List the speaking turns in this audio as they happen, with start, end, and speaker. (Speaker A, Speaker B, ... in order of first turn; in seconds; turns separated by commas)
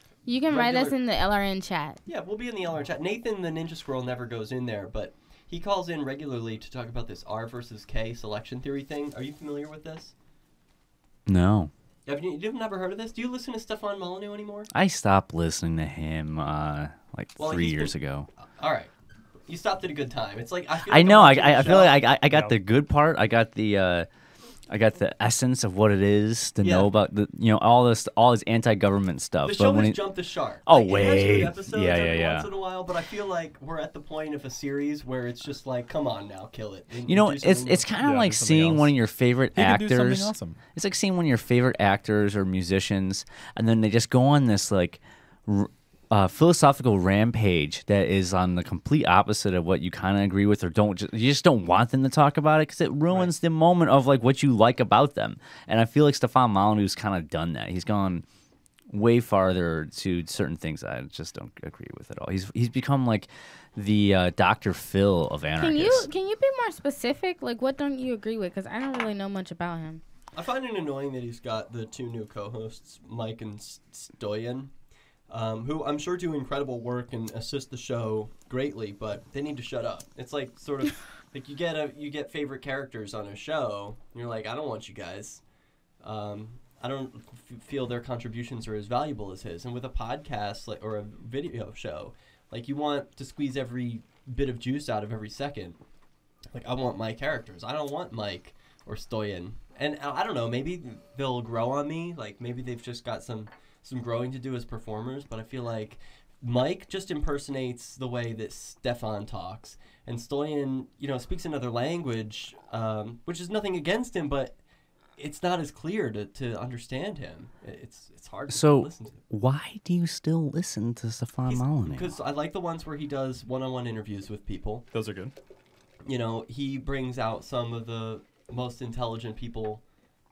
Speaker A: 0.3-2.0, Speaker B: 0.5-1.0, Speaker B: 2.1-10.1, Speaker C: 11.3-11.7, Speaker B: 12.1-14.7, Speaker C: 14.7-18.3, Speaker B: 17.4-18.9, Speaker B: 19.5-22.1, Speaker C: 20.9-24.1, Speaker C: 24.7-30.1, Speaker B: 26.6-26.9, Speaker B: 29.4-38.0, Speaker C: 30.6-32.5, Speaker C: 37.0-58.2, Speaker D: 38.0-38.9, Speaker D: 39.5-40.6, Speaker B: 53.1-53.3, Speaker C: 58.9-66.1, Speaker A: 65.6-70.0, Speaker B: 70.3-74.7, Speaker B: 75.3-85.4, Speaker B: 86.0-95.8, Speaker B: 96.5-114.6, Speaker B: 115.2-119.2, Speaker C: 118.5-122.2, Speaker B: 121.5-124.9, Speaker D: 124.9-125.3, Speaker B: 126.0-129.8